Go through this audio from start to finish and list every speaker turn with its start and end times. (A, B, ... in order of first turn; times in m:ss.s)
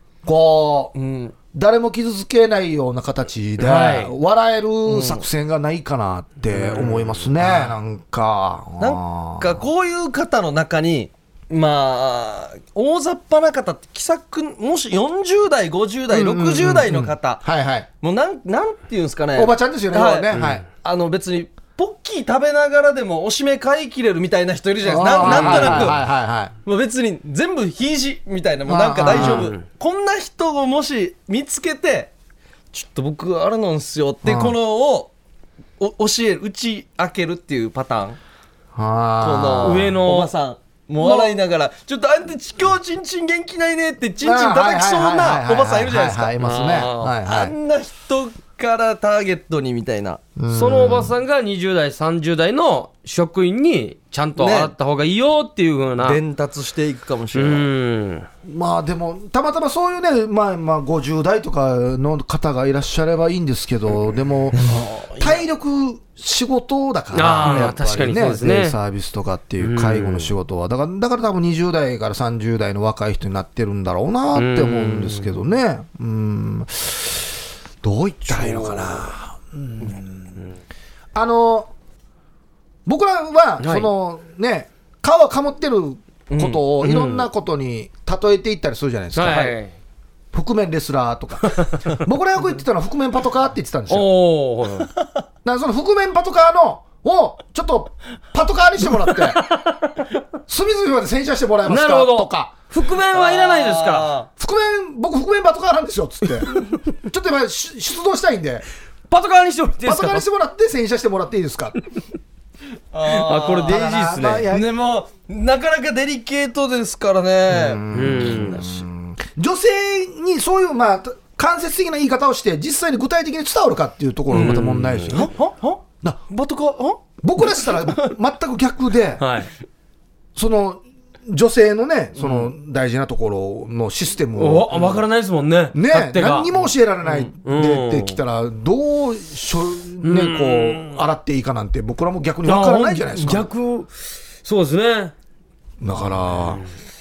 0:00.2-0:00.9 A
0:00.9-0:01.3 B
0:01.5-0:09.6 A
0:03.6-0:04.1 C
0:04.8-0:05.2 B
0:06.5-0:07.6 B
0:08.8-0:17.4 B
0:16.1-0:17.9 A
0:18.0-0:26.0 B
0:19.3-0:20.6 A
0:20.3-0:20.6 C
0:24.8-0:26.5 A
0:25.2-0:26.0 C
0:26.6-0:32.1 B
0:28.7-0:29.5 A
0:29.1-0:29.6 C
0:32.7-0:35.1 B
0:34.2-0:34.6 A
0:35.8-0:38.2 B
0:38.7-0:39.9 A
0:39.2-0:46.3 B
0:39.6-0:40.3 C
0:41.0-0:41.3 C
0:44.2-0:47.5 A
0:46.4-0:47.1 C
0:47.2-0:50.2 B
0:50.4-0:51.1 A
0:50.5-0:56.2 C
0:54.4-0:54.7 B
0:56.0-0:57.6 B
0:57.3-0:58.3 C
0:58.4-1:20.3 A
1:04.5-1:05.4 B
1:07.1-1:08.8 C
1:09.6-1:10.3 C
1:14.3-1:15.3 C
1:18.4-1:18.8 C
1:21.1-1:21.7 A
1:22.8-1:29.5 A
1:23.6-1:23.9 C
1:26.3-1:26.6 B
1:26.8-1:27.3 C
1:29.1-1:29.7 C
1:30.3-1:34.1 A
1:33.9-1:34.9 C
1:35.4-1:39.4 A
1:39.2-1:40.0 C
1:40.5-1:42.5 A
1:41.7-1:44.1 C
1:43.1-1:44.3 B
1:44.4-1:48.6 A
1:49.1-1:50.2 C
1:49.8-1:51.8 A
1:52.9-1:53.8 B
1:53.1-1:54.5 C
1:53.6-1:54.7 A
1:54.5-1:58.8 B
1:57.5-2:05.3 A
1:57.9-1:58.6 C
2:04.3-2:05.2 C
2:05.1-2:07.7 B
2:07.2-2:09.2 A
2:09.2-2:09.5 C
2:10.3-2:14.7 A
2:12.2-2:12.5 B
2:14.4-2:16.5 C
2:15.7-2:23.5 A
2:17.4-2:18.2 C
2:20.0-2:21.0 C
2:22.4-2:23.9 C
2:24.4-2:25.1 C
2:25.8-2:26.6 A